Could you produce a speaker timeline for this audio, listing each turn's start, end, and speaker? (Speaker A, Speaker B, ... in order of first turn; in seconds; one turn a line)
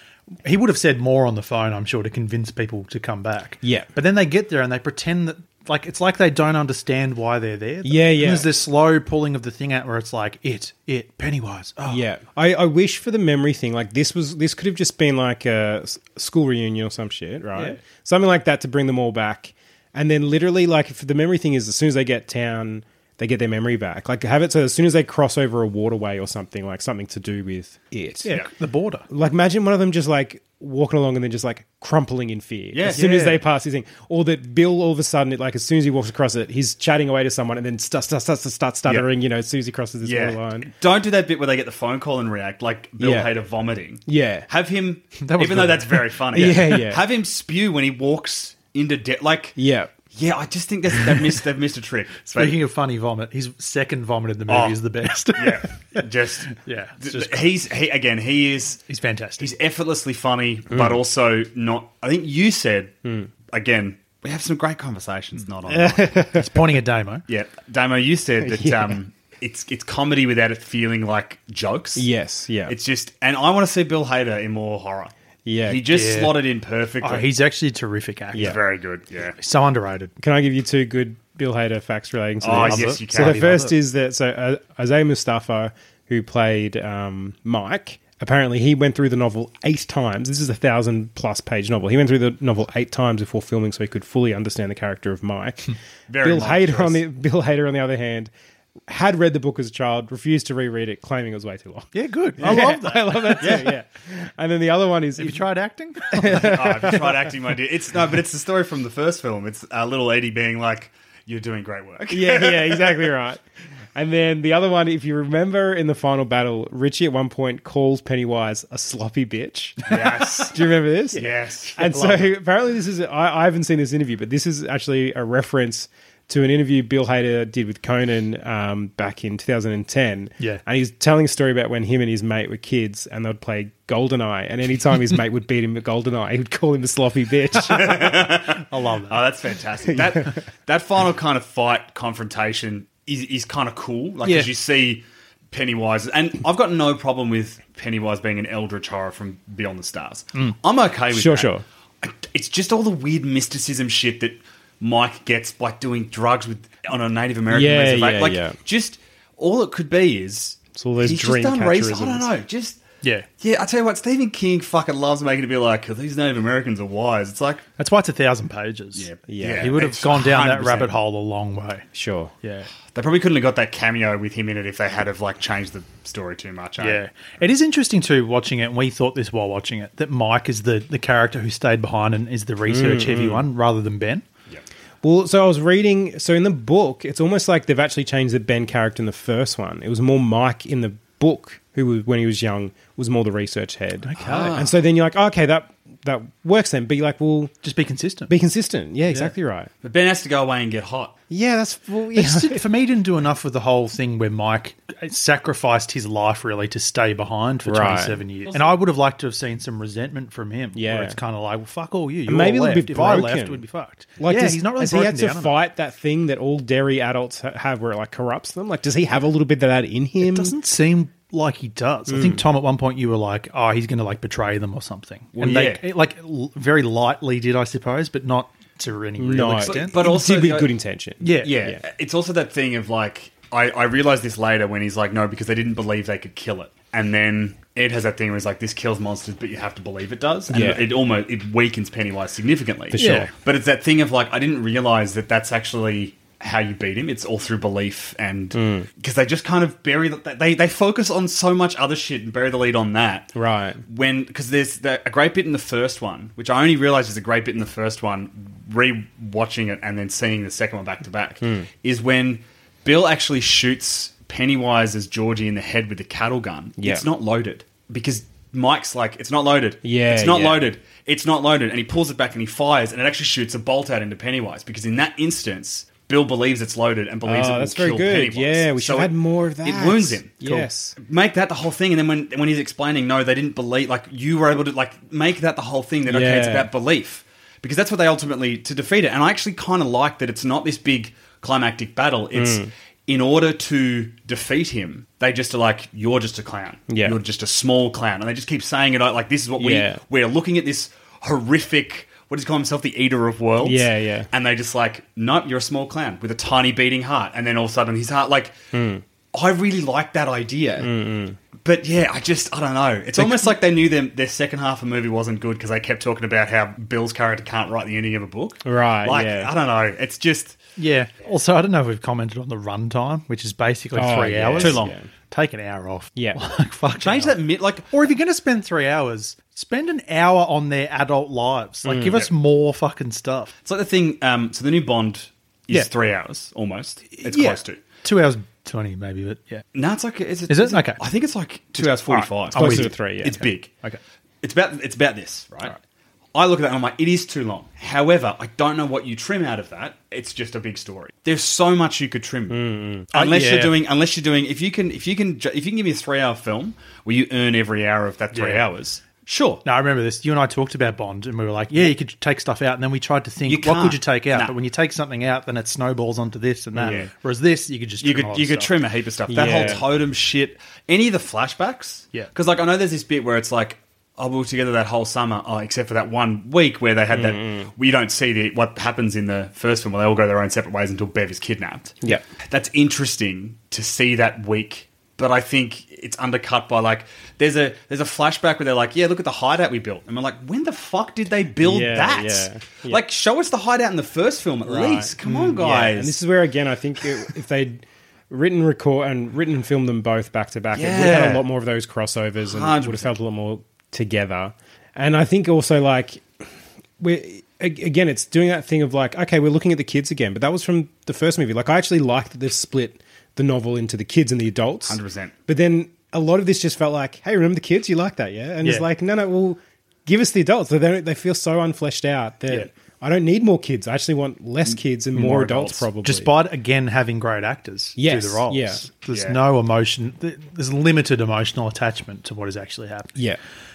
Speaker A: 0.4-12.1
Speaker B: 3.6-3.9
Speaker B: 7.8-8.5
Speaker B: 11.9-28.3
Speaker A: 17.5-17.8
Speaker A: 28.2-29.1
Speaker B: 29.1-40.7
Speaker C: 32.7-33.1
Speaker A: 32.9-33.4
Speaker C: 40.0-49.6
Speaker B: 43.0-43.3
Speaker B: 44.1-44.5
Speaker A: 45.2-46.2
Speaker B: 46.3-47.0
Speaker B: 49.6-49.9
Speaker C: 50.1-52.6
Speaker A: 52.3-57.6
Speaker C: 54.5-54.8
Speaker C: 55.4-58.8
Speaker A: 58.9-59.5
Speaker C: 59.4-66.2
Speaker B: 60.7-61.0
Speaker B: 63.0-63.3
Speaker B: 65.7-66.5
Speaker A: 66.3-67.2
Speaker C: 67.3-72.1
Speaker B: 68.4-69.0
Speaker B: 72.0-72.8
Speaker C: 72.7-75.1
Speaker B: 75.5-75.8
Speaker C: 75.7-77.3
Speaker A: 75.9-76.4
Speaker A: 77.0-78.6
Speaker C: 78.4-79.4
Speaker A: 79.4-80.1
Speaker B: 80.2-98.3
Speaker C: 82.4-83.5
Speaker A: 82.4-83.8
Speaker C: 96.1-97.0
Speaker B: 98.9-105.5
Speaker A: 101.9-103.6
Speaker C: 103.4-103.8
Speaker A: 105.2-106.9
Speaker B: 106.1-107.2
Speaker C: 106.3-113.1
Speaker B: 112.1-113.4
Speaker B: 114.0-138.1
Speaker C: 119.9-120.6
Speaker C: 121.2-122.2
Speaker C: 137.7-151.5
Speaker A: 138.7-139.3
Speaker B: 139.9-140.3
Speaker A: 144.2-144.5
Speaker B: 151.1-151.6
Speaker C: 152.0-162.8
Speaker B: 157.5-158.6
Speaker B: 160.7-162.3
Speaker A: 163.0-163.3
Speaker C: 163.4-167.7
Speaker A: 167.8-171.9
Speaker C: 168.9-170.9
Speaker B: 169.3-169.8
Speaker B: 171.9-172.3
Speaker A: 172.4-172.7
Speaker C: 172.9-177.0
Speaker A: 176.8-184.3
Speaker B: 182.7-183.5
Speaker B: 185.0-197.5
Speaker A: 194.0-194.6
Speaker C: 194.2-194.8
Speaker A: 197.6-198.3
Speaker B: 198.3-199.7
Speaker A: 199.0-199.3
Speaker C: 199.8-201.2
Speaker B: 201.3-202.6
Speaker A: 202.1-215.6
Speaker B: 207.7-208.2
Speaker B: 210.8-211.2
Speaker B: 212.3-220.5
Speaker A: 220.2-230.1
Speaker B: 222.1-222.5
Speaker C: 225.4-225.8
Speaker B: 229.2-231.8
Speaker C: 229.6-230.8
Speaker A: 231.2-231.6
Speaker C: 231.4-253.3
Speaker B: 240.5-240.9
Speaker B: 242.9-243.3
Speaker A: 243.0-243.3
Speaker B: 248.5-248.9
Speaker B: 253.4-253.8
Speaker C: 253.8-280.4
Speaker B: 261.4-261.7
Speaker B: 266.8-267.1
Speaker B: 269.8-270.7
Speaker B: 277.2-281.0
Speaker C: 281.0-308.6
Speaker B: 286.1-286.7
Speaker B: 292.4-292.7
Speaker B: 296.9-297.2
Speaker B: 299.6-300.0
Speaker B: 303.6-304.3
Speaker B: 308.7-309.0
Speaker C: 309.3-310.9
Speaker B: 310.8-311.4
Speaker C: 311.6-320.6
Speaker B: 318.6-319.5
Speaker A: 320.8-333.5
Speaker B: 323.9-325.1
Speaker C: 324.6-324.9
Speaker B: 326.2-326.4
Speaker C: 327.0-327.9
Speaker B: 331.9-332.2
Speaker C: 333.6-337.8
Speaker A: 337.1-339.7
Speaker C: 339.8-343.7
Speaker A: 340.5-341.0
Speaker A: 341.8-344.0
Speaker B: 342.5-343.4
Speaker C: 344.4-345.8
Speaker C: 346.3-359.6
Speaker B: 352.5-353.1
Speaker A: 353.1-353.8
Speaker A: 358.3-358.7
Speaker A: 359.6-368.7
Speaker C: 363.5-364.6
Speaker C: 366.8-367.1
Speaker C: 368.0-396.2
Speaker B: 369.3-369.8
Speaker B: 377.1-377.7
Speaker B: 391.6-393.0
Speaker B: 394.7-406.3
Speaker C: 400.7-401.4
Speaker C: 402.4-403.1
Speaker B: 407.0-426.3
Speaker C: 414.9-415.3
Speaker A: 418.6-418.9
Speaker A: 425.2-433.2
Speaker C: 425.3-425.9
Speaker B: 428.0-428.9
Speaker C: 429.1-429.4